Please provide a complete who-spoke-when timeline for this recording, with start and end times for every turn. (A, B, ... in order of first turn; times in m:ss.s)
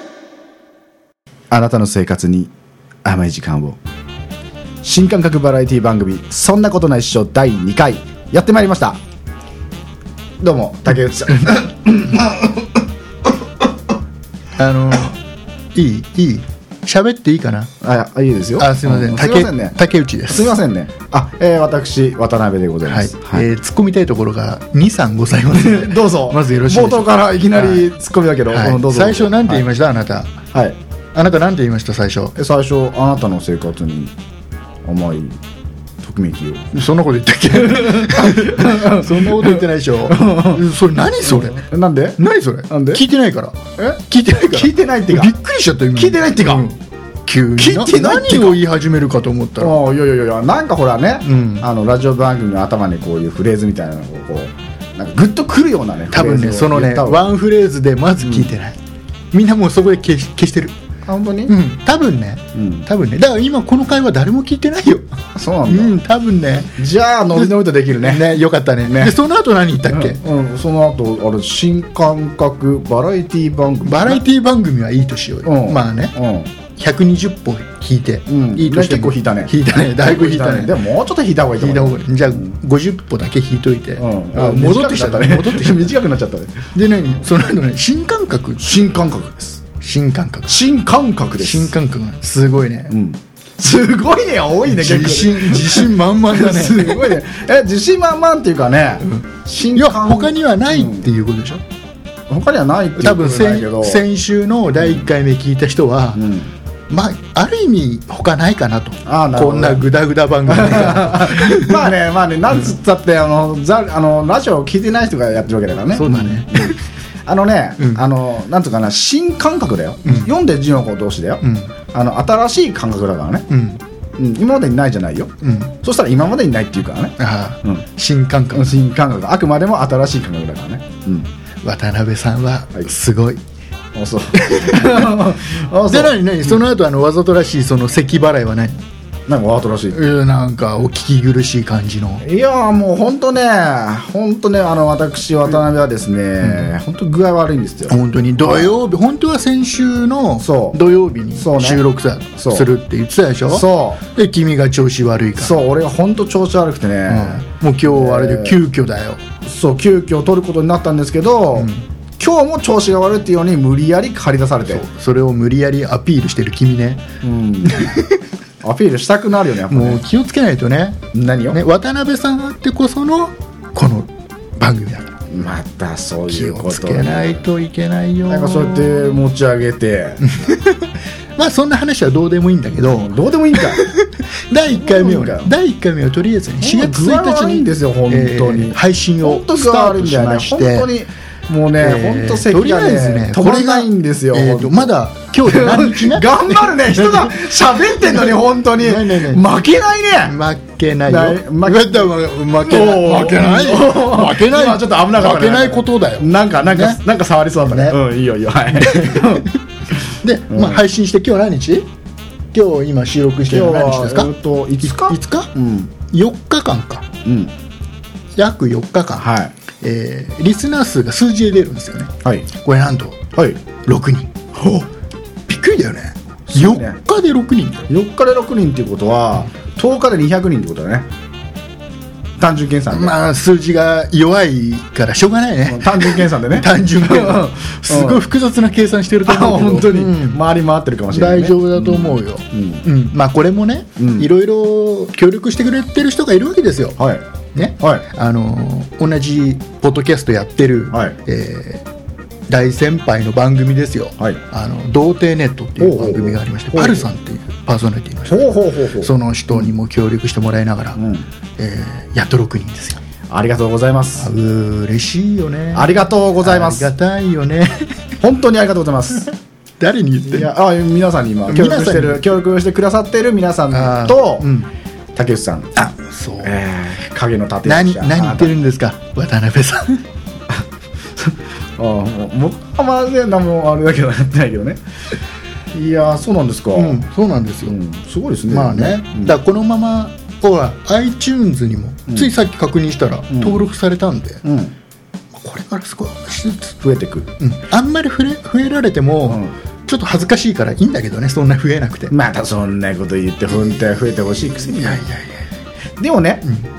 0:01.5-0:02.5 A
0:03.0-0:03.8 A
0:04.8-0:09.0 A
0:10.4-0:12.4 A
0:14.6-0:15.2 B
0:15.7-0:17.7 B
0:17.8-0:19.8 A
0:18.6-0:20.6 B
0:20.3-0:23.5 A
0:22.8-0:27.9 B
0:25.6-0:29.6 A
0:28.5-0:30.3 B
0:31.1-0:32.3 B
0:32.4-0:34.1 A
0:34.8-0:35.4 A
0:36.0-0:36.8 A
0:36.7-0:41.6 B
0:37.6-0:40.6 A
0:41.2-0:43.0 A
0:42.2-0:49.8 B
0:44.5-0:45.3 A
0:45.9-0:46.6 A
0:47.6-0:48.6 A
0:49.6-0:57.3 A
0:51.2-0:51.7 B
0:56.1-0:58.8 B
0:59.3-1:00.7 B
1:01.0-1:01.5 A
1:01.5-1:05.1 B
1:02.5-1:02.8 A
1:05.4-1:06.0 A
1:05.7-1:06.8 B
1:06.8-1:08.3 A
1:07.3-1:10.2 B
1:08.8-1:09.2 A
1:09.9-1:14.2 A
1:13.8-1:16.2 B
1:15.4-1:16.5 A
1:16.7-1:20.7 B
1:18.3-1:22.6 A
1:21.6-1:25.9 B
1:24.0-1:26.7 A
1:26.7-1:28.6 B
1:28.6-1:29.6 A
1:29.8-1:30.6 B
1:30.5-1:31.7 A
1:31.4-1:32.9 B
1:32.9-1:41.1 A
1:34.7-1:37.2 B
1:39.0-1:41.6 B
1:42.3-1:44.0 A
1:43.0-1:46.2 B
1:44.8-1:45.1 A
1:46.2-1:46.5 A
1:46.9-1:51.9 B
1:49.0-1:49.9 A
1:50.4-2:03.5 A
1:55.9-1:56.8 B
2:00.0-2:00.3 B
2:01.4-2:01.7 B
2:03.5-2:03.8 B
2:04.2-2:05.3 A
2:05.4-2:05.7 B
2:05.8-2:07.8 A
2:07.2-2:08.7 B
2:08.5-2:11.3 A
2:11.6-2:13.4 B
2:13.9-2:16.6 A
2:14.4-2:15.3 B
2:15.9-2:18.7 B
2:19.3-2:20.0 A
2:19.9-2:22.2 B
2:22.2-2:28.7 A
2:26.4-2:26.7 B
2:27.9-2:35.5 B
2:30.4-2:30.8 A
2:31.4-2:31.8 A
2:32.4-2:32.7 A
2:33.5-2:34.0 A
2:35.4-2:38.6 A
2:37.1-2:39.2 B
2:39.4-2:44.8 A
2:41.5-2:41.8 B
2:44.7-2:47.0 B
2:47.2-2:47.9 A
2:47.7-2:48.2 B
2:48.6-2:50.0 A
2:49.7-2:51.0 B
2:51.1-2:51.6 A
2:51.5-2:55.2 B
2:55.3-2:57.4 A
2:56.3-2:59.2 B
2:58.3-3:00.3 A
3:00.2-3:10.9 B
3:02.8-3:03.9 A
3:04.7-3:05.5 A
3:06.6-3:14.9 A
3:11.8-3:17.3 B
3:15.4-3:20.3 A
3:18.0-3:19.4 B
3:20.2-3:27.0 B
3:21.1-3:29.5 A
3:27.7-3:28.0 B
3:28.7-3:29.5 B
3:30.2-3:31.9 B
3:30.5-3:30.8 A
3:32.5-3:34.3 B
3:33.4-3:35.9 A
3:34.8-3:35.5 B
3:36.1-3:37.0 B
3:37.2-3:37.5 A
3:38.4-3:39.2 B
3:39.2-3:39.5 A
3:39.8-3:43.2 B
3:43.3-3:43.6 A
3:43.8-3:44.8 B
3:45.5-3:47.9 B
3:46.5-3:47.0 A
3:47.9-3:51.1 A
3:52.4-3:53.1 A
3:52.9-4:00.4 B
3:55.7-3:58.2 A
3:59.2-4:02.8 A
4:01.1-4:07.0 B
4:04.0-4:04.3 A
4:07.0-4:07.2 A
4:07.5-4:11.8 B
4:07.8-4:08.1 A
4:10.9-4:11.2 A
4:12.5-4:21.0 B
4:15.8-4:17.1 A
4:18.2-4:19.7 A
4:21.0-4:21.2 A
4:21.6-4:23.0 B
4:23.3-4:24.3 A
4:24.2-4:27.9 B
4:25.7-4:26.9 A
4:28.2-4:29.3 A
4:29.8-4:30.5 B
4:30.2-4:34.5 A
4:31.5-4:32.3 B
4:33.7-4:34.7 B
4:35.2-4:35.7 A
4:35.8-4:36.5 B
4:36.4-4:38.5 A
4:37.6-4:40.0 B
4:41.2-4:44.8 A
4:45.7-4:47.1 A
4:46.7-4:47.8 B
4:47.6-4:49.4 A
4:48.5-4:54.4 B
4:53.3-4:53.6 A
4:54.4-4:54.7 A
4:55.3-4:56.8 B
4:56.8-4:57.3 A
4:57.4-5:02.1 B
4:59.3-4:59.5 A
5:02.1-5:05.1 A
5:04.7-5:05.4 B
5:06.0-5:06.4 A